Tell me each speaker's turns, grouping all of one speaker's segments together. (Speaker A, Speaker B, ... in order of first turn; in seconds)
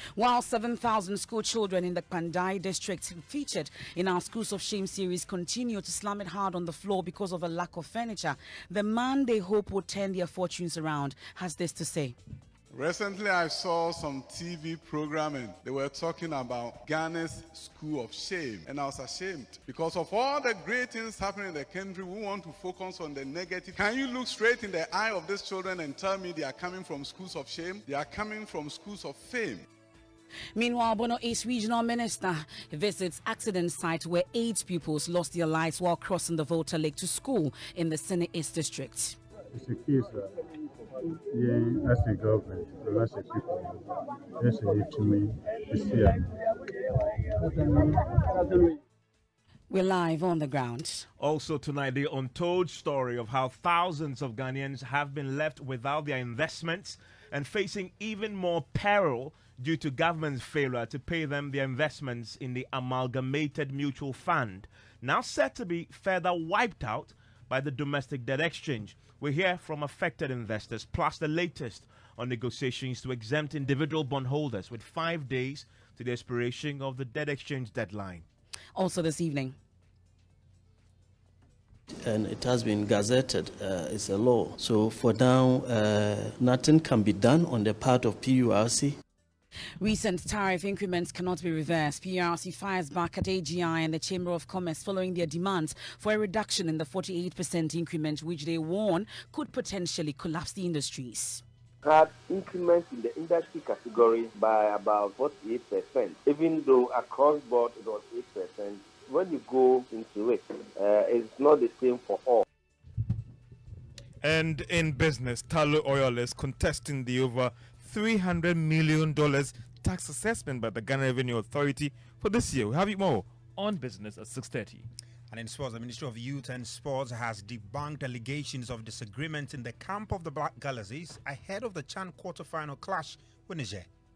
Speaker A: 0.1-12.2, 30.5-39.2, 49.7-51.1, 78.8-79.5, 89.8-101.4
Speaker B: 12.7-29.6
Speaker C: 39.5-40.3, 41.3-43.6, 44.4-46.1
Speaker D: 51.2-78.2
Speaker E: 82.0-89.0
Speaker F: 101.8-112.4
Speaker G: 114.2-124.8
Speaker H: 125.3-133.9